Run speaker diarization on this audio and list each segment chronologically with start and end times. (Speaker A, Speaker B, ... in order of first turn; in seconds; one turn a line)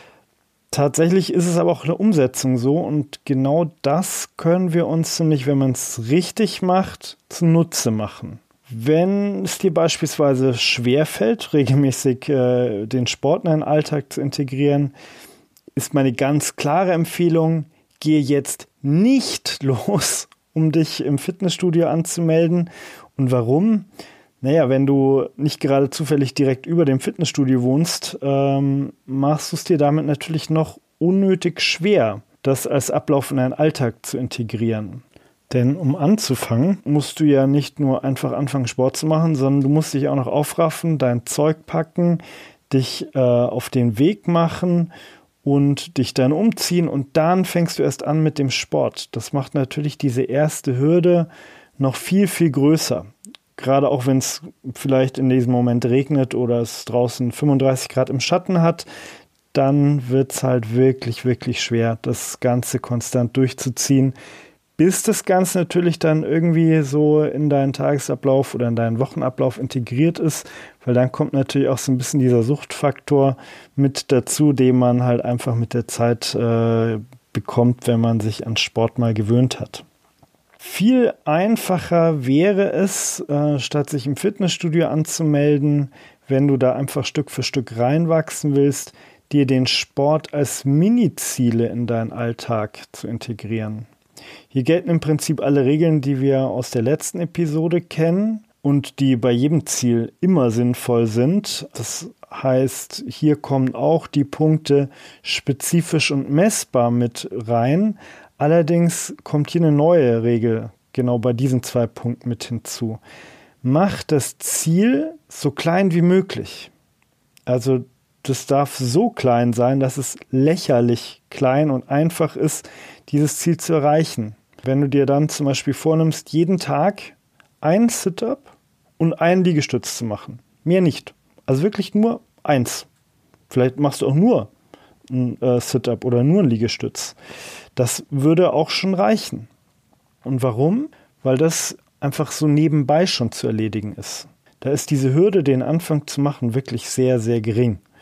Speaker A: 0.7-14.9
Speaker A: 15.8-23.9
Speaker A: 24.4-44.9
Speaker A: 45.4-58.9
Speaker A: 59.5-64.1
Speaker A: 64.8-79.8
Speaker A: 80.6-93.9
Speaker A: 94.5-113.0
Speaker A: 113.6-116.7
Speaker A: 117.5-132.9
Speaker A: 133.5-134.5
Speaker A: 135.1-137.2
Speaker A: 137.8-139.5
Speaker A: 140.2-147.8